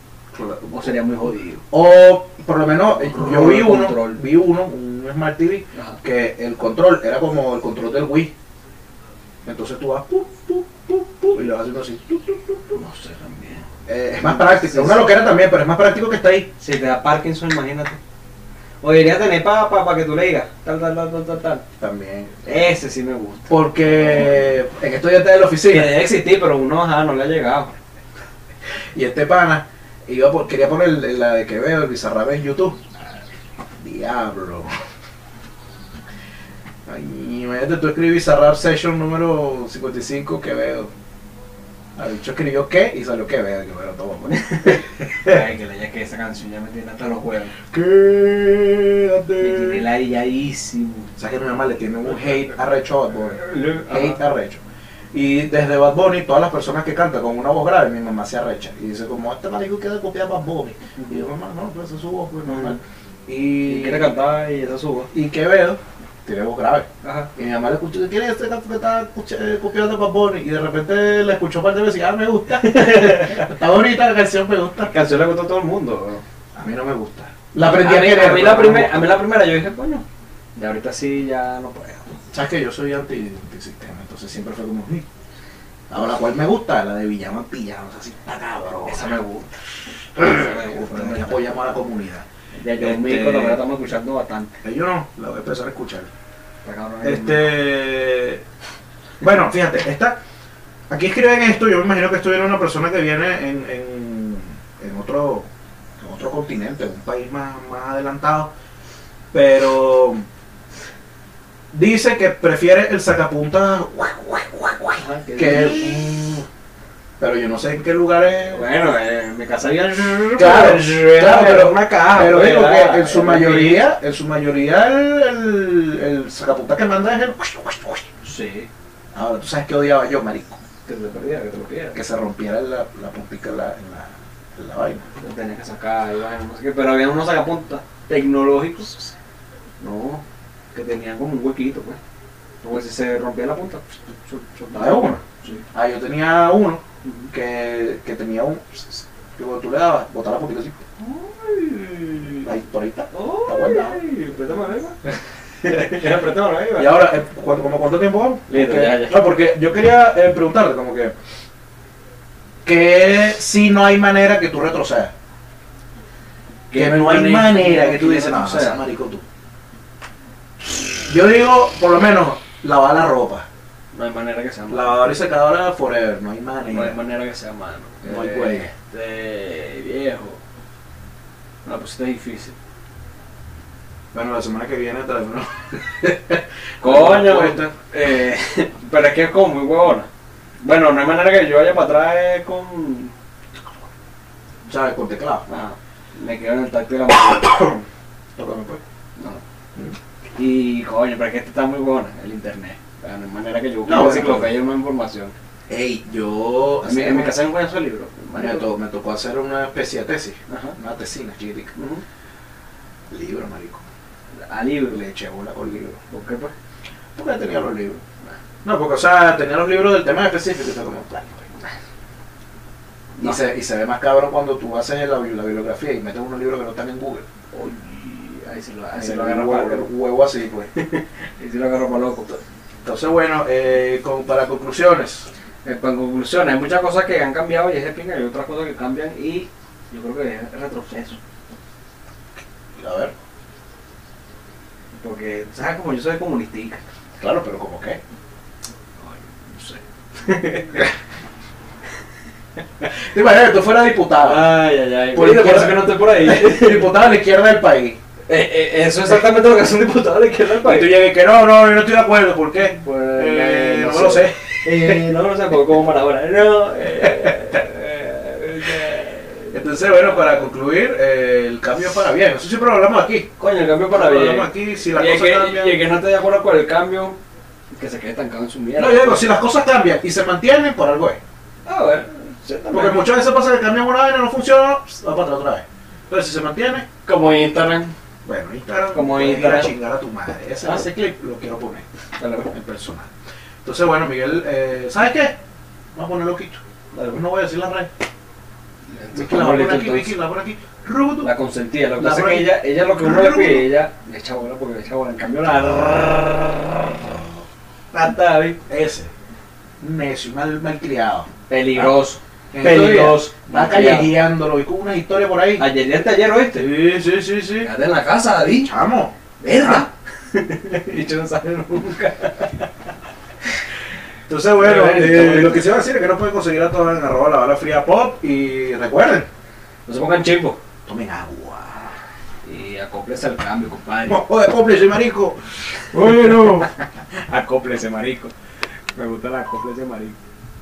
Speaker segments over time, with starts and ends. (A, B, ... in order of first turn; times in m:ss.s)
0:00.3-0:00.9 A
0:00.7-0:01.6 B
0:01.7-0:08.3 A
0:02.9-0:04.2 B
0:05.7-0:06.0 B
0:09.4-0:12.8 A
0:12.7-0:15.1 B
0:13.8-0:16.5 A
0:16.6-0:18.0 B
0:18.8-0:21.6 B
0:21.8-0:22.4 A
0:22.4-0:24.4 B
0:23.5-0:26.0 A
0:25.7-0:27.7 B
0:28.9-0:32.8 A
0:33.8-0:34.7 A
0:36.8-0:40.9 A
0:42.0-0:45.4 A
0:44.3-0:47.6 B
0:47.7-0:49.9 A
0:49.4-0:51.1 B
0:51.2-0:54.6 A
0:52.0-0:52.5 B
0:53.2-0:54.3 B
0:55.1-1:04.2 A
1:01.0-1:01.2 B
1:02.4-1:02.8 B
1:03.6-1:05.1 B
1:05.1-1:14.9 A
1:07.0-1:07.3 B
1:12.5-1:13.5 B
1:14.9-1:16.2 B
1:16.5-1:19.1 A
1:17.6-1:20.0 B
1:20.6-1:22.1 B
1:22.3-1:25.0 A
1:25.9-1:29.2 A
1:28.9-1:29.5 B
1:30.2-1:32.2 A
1:30.2-1:31.5 B
1:32.6-1:34.5 B
1:32.8-1:33.6 A
1:34.6-1:36.1 A
1:36.6-1:37.6 B
1:37.0-1:38.4 A
1:39.2-1:40.2 A
1:40.9-1:45.5 A
1:46.0-1:48.5 A
1:49.3-1:50.2 A
1:51.7-1:56.4 A
1:55.0-1:56.2 B
1:57.2-1:58.6 A
1:58.5-2:03.9 B
2:00.3-2:08.1 A
2:08.2-2:08.7 B
2:09.1-2:10.6 A
2:10.8-2:12.0 B
2:11.9-2:15.0 A
2:15.2-2:19.1 B
2:19.8-2:22.0 B
2:22.6-2:25.6 B
2:24.7-2:25.2 A
2:25.7-2:30.8 A
2:27.0-2:27.3 B
2:31.0-2:32.5 B
2:32.4-2:34.0 A
2:33.1-2:37.0 B
2:35.7-2:36.0 A
2:36.8-2:41.1 A
2:38.5-2:39.2 B
2:42.6-2:45.1 A
2:46.7-2:48.8 B
2:46.7-2:49.2 A
2:51.0-2:53.5 A
2:53.9-2:55.0 B
2:54.7-2:57.0 A
2:56.6-3:00.4 B
2:58.0-2:58.7 A
3:01.6-3:02.5 B
3:04.1-3:07.7 A
3:06.8-3:10.1 B
3:10.6-3:13.1 B
3:14.7-3:15.4 A
3:15.5-3:17.8 B
3:18.4-3:18.8 A
3:19.2-3:19.4 B
3:20.4-3:25.3 B
3:23.8-3:24.5 A
3:25.7-3:27.4 A
3:26.8-3:28.7 B
3:28.3-3:31.7 A
3:30.5-3:30.8 B
3:31.7-3:32.0 B
3:33.1-3:33.8 A
3:34.4-3:35.0 B
3:34.9-3:36.0 A
3:36.1-3:36.5 B
3:37.2-3:38.0 A
3:38.6-3:41.4 A
3:43.2-3:43.4 B
3:43.2-3:47.2 A
3:47.5-3:49.9 B
3:48.9-3:50.7 A
3:50.7-3:52.4 B
3:52.8-3:55.3 A
3:55.6-4:01.2 B
4:02.8-4:03.1 A
4:04.9-4:06.8 B
4:07.2-4:08.0 A
4:09.0-4:10.9 B
4:12.9-4:18.0 A
4:14.2-4:17.0 B
4:18.3-4:21.0 B
4:20.5-4:25.1 A
4:22.7-4:30.5 B
4:26.8-4:27.4 A
4:29.5-4:33.3 A
4:33.4-4:37.2 B
4:33.9-4:35.8 A
4:37.8-4:39.3 B
4:38.8-4:41.2 A
4:41.6-4:43.1 B
4:42.7-4:46.8 A
4:47.0-4:47.9 B
4:48.2-4:51.8 A
4:48.9-4:49.7 B
4:50.6-4:50.9 B
4:52.2-4:52.5 B
4:52.4-4:53.1 A
4:53.6-4:55.4 A
4:55.9-4:57.9 A
4:56.9-4:57.2 B
4:58.9-5:00.2 B
4:59.1-5:01.3 A
5:01.2-5:06.9 B
5:02.0-5:03.7 A
5:05.6-5:06.1 A
5:07.0-5:07.4 A
5:07.9-5:08.6 B
5:08.7-5:09.1 A
5:09.8-5:12.0 A
5:11.5-5:14.2 B
5:12.5-5:15.6 A
5:15.6-5:16.7 B
5:16.5-5:17.7 A
5:17.6-5:18.7 B
5:18.5-5:19.8 A
5:19.4-5:22.7 B
5:24.3-5:29.3 A
5:24.6-5:25.7 B
5:29.9-5:30.6 B
5:30.8-5:31.9 A
5:32.4-5:34.2 B
5:34.1-5:35.4 A
5:35.9-5:36.7 A
5:35.9-5:38.3 B
5:38.9-5:40.1 B